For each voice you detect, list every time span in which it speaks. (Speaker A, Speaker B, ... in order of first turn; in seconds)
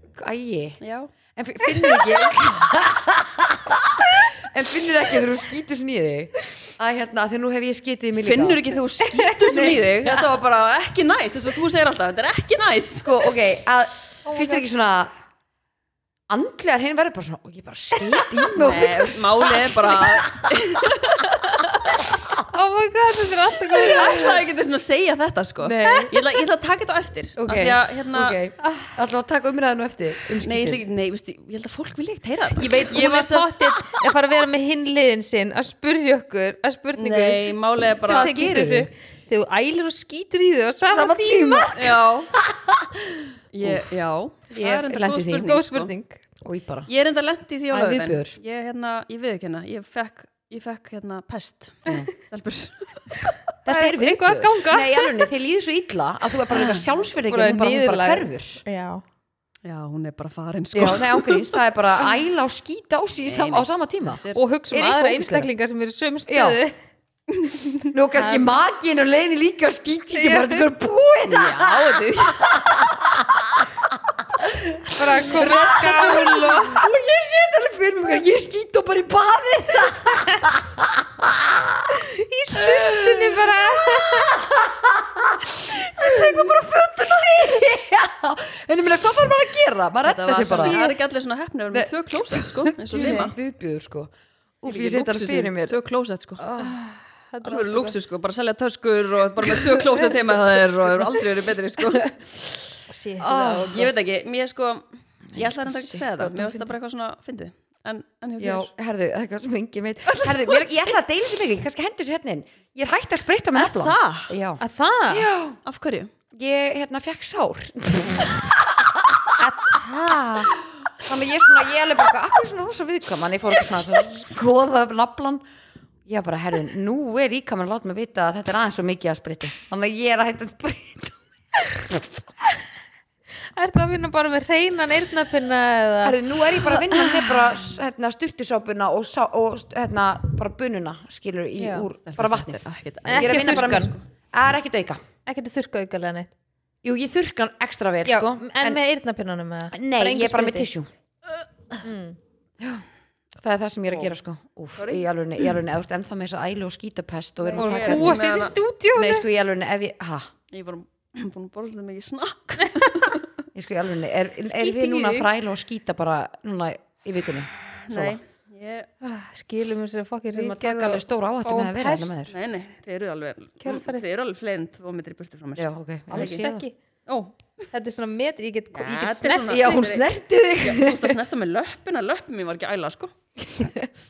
Speaker A: 0.1-0.8, 1.3-8.8, 9.4-10.4, 13.0-15.1, 16.3-20.5, 25.6-26.1, 27.4-30.8, 38.0-38.9, 40.9-44.0, 44.5-45.5, 46.4-46.9, 47.7-48.4, 53.6-58.6, 60.7-65.5, 66.3-66.6, 67.9-73.4, 74.4-90.8, 91.7-95.8, 96.4-96.8, 99.6-101.3, 101.8-102.1, 103.2-104.0, 105.3-106.7, 108.4-115.6, 116.3-119.3, 121.0-125.4, 126.0-131.2, 131.7-132.2, 136.0-145.0, 146.8-148.8, 149.7-150.9, 152.6-152.8, 153.4-158.2, 158.9-160.3, 163.5-168.2, 170.3-172.3, 175.6-176.6, 179.5-181.2, 183.6-183.9
Speaker B: 0.8-1.1, 8.2-13.3, 18.5-22.2, 23.8-28.4, 30.4-33.8, 37.0-38.3, 41.7-42.3, 43.5-45.9, 46.9-53.4, 56.5-56.8, 59.6-61.6, 63.2-64.4, 71.2-73.2, 90.0-93.3, 94.7-96.4, 97.4-102.3, 103.7-108.7, 110.0-110.9, 113.5-114.3, 115.6-116.1, 142.1-144.0, 154.8-155.1, 157.4-158.5, 160.5-163.3, 167.8-168.9, 172.3-176.4, 177.1-177.3, 178.7-183.1
Speaker C: 14.2-14.6, 22.5-24.3, 25.8-26.1, 28.6-28.9, 32.6-37.5, 38.1-41.7, 45.4-46.2, 53.7-55.1, 57.2-59.0, 64.3-66.7, 68.1-68.5, 70.1-70.6, 74.9-76.8, 81.9-84.3, 90.3-91.0, 93.0-93.3, 96.6-98.0, 102.9-103.9, 114.6-115.3, 119.4-120.5, 133.5-137.2, 141.6-141.9, 143.1-143.9, 145.2-146.3, 148.1-150.7, 151.8-152.2, 157.5-159.2, 164.4-165.3, 169.0-172.2, 173.6-174.0, 176.1-176.7, 177.7-179.8